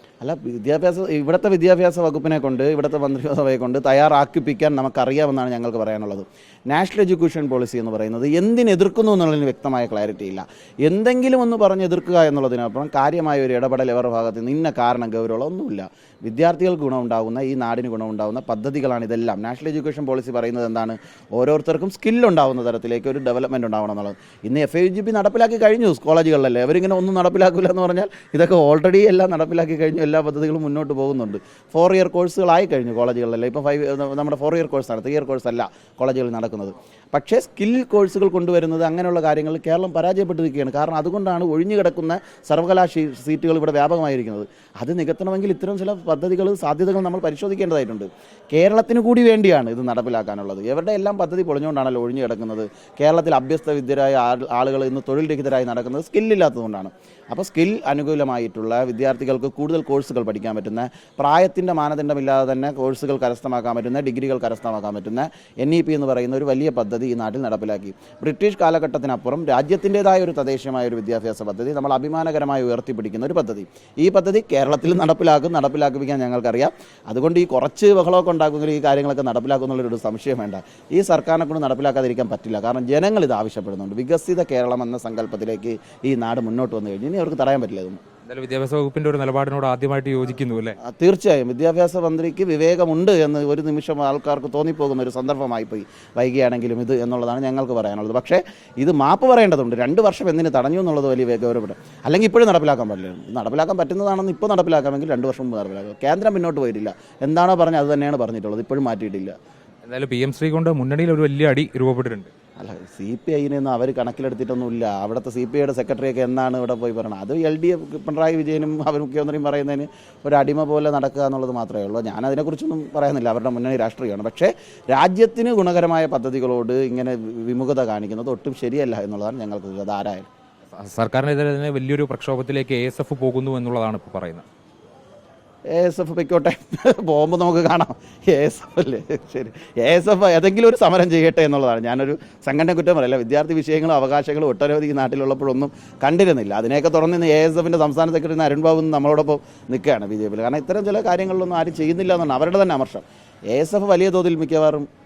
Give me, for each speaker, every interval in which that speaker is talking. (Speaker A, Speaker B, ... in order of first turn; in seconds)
Speaker A: 0.2-88.0, 90.8-109.3, 112.6-130.3, 135.7-154.9
Speaker B: 88.3-90.8, 109.8-112.3, 130.7-134.4